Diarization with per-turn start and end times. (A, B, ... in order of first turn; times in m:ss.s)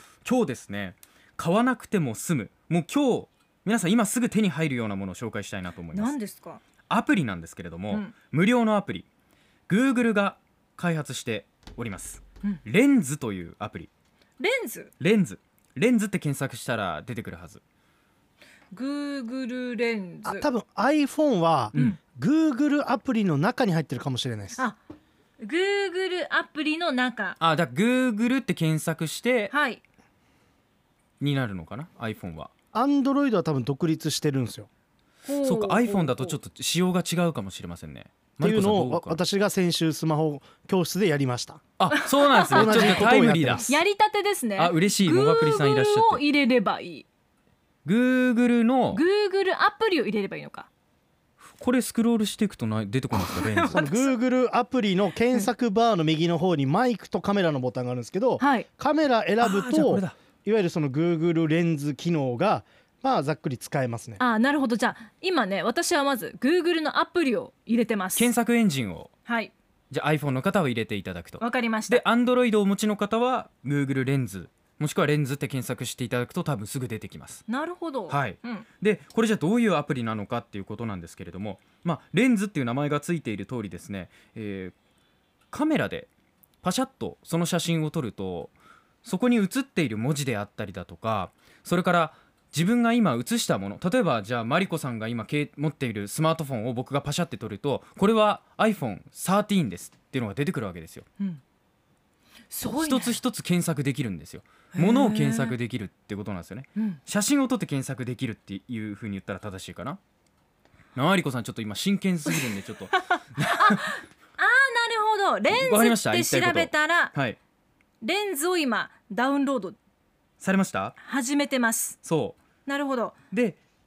0:00.2-0:06.2 A
0:05.9-0:06.6 B
0:06.9-0:09.0 A
0:09.7-0:13.9 A
0:14.4-0:14.9 B
0:15.0-0:17.6 A
0:18.7-0:20.4 B
0:20.2-0:24.6 C
0:25.4-0:27.4 B
0:27.4-0:29.5 A
0:29.5-0:29.8 B
0:31.2-0:32.5 A
0:32.7-0:34.7 C
0:35.2-0:36.4 B
0:35.4-0:39.2 A
0:38.4-0:41.6 C
0:41.8-0:43.7 A
0:41.9-0:43.1 B
0:42.5-0:43.8 C
0:43.6-0:47.0 B
0:44.6-0:46.2 A
0:47.8-0:49.0 A
0:48.9-0:50.7 B
0:51.4-0:53.8 A
0:53.1-0:54.1 B
0:53.7-1:04.2 C
0:58.4-0:58.7 B
0:59.4-1:00.2 A
1:04.2-1:08.3 B
1:08.2-1:09.1 A
1:09.2-1:09.5 B
1:09.9-1:17.4 A
1:11.4-1:12.0 B
1:17.5-1:18.6 B
1:18.1-1:24.7 A
1:25.5-1:26.1 A
1:26.6-1:28.5 A
1:29.0-1:41.0 A
1:42.5-1:43.2 B
1:42.6-1:50.0 A
1:44.7-1:45.6 B
1:51.0-1:54.0 A
1:52.3-1:57.1 B
1:55.5-1:57.4 A
1:58.0-1:59.8 B
2:00.4-2:01.0 A
2:01.0-2:02.0 B
2:02.0-2:02.4 A
2:02.6-2:03.2 B
2:03.3-2:03.6 A